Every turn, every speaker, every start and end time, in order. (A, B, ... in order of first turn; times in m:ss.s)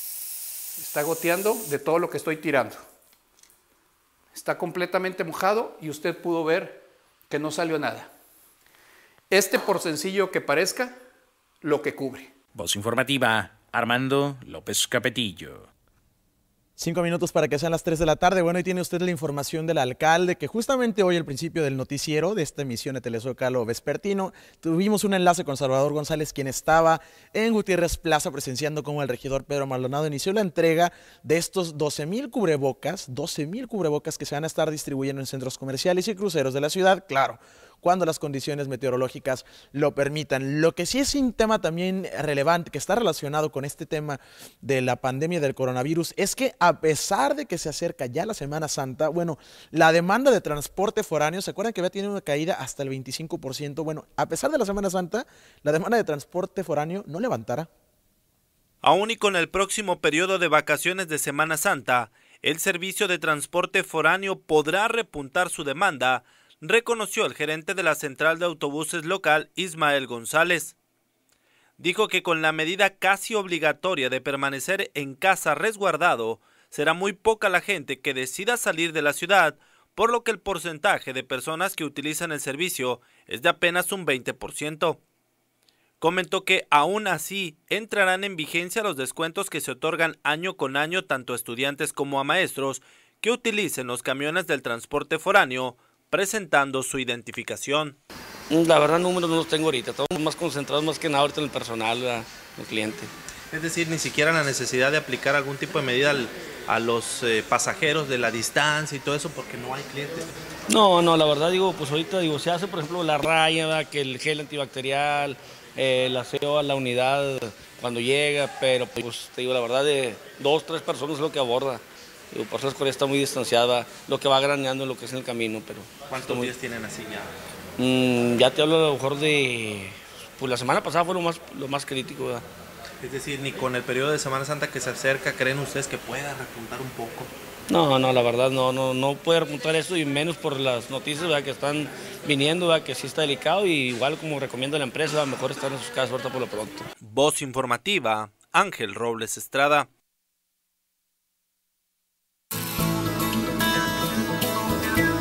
0:00.8-0:02.8 A
0:04.3-0:08.1 A
0:09.3-0:11.0 A
0:11.6-0:12.3 A
0:12.5-0:15.7 B
0:16.8-0:57.7 C
0:58.8-1:10.7 D
1:11.8-1:25.0 D
1:26.0-1:38.0 D
1:38.5-1:43.1 E
1:43.5-1:50.3 F
1:50.7-2:06.5 E
2:06.1-2:07.3 F
2:07.8-2:12.4 E
2:13.0-2:17.3 F
2:17.7-2:26.9 E
2:27.0-2:29.9 D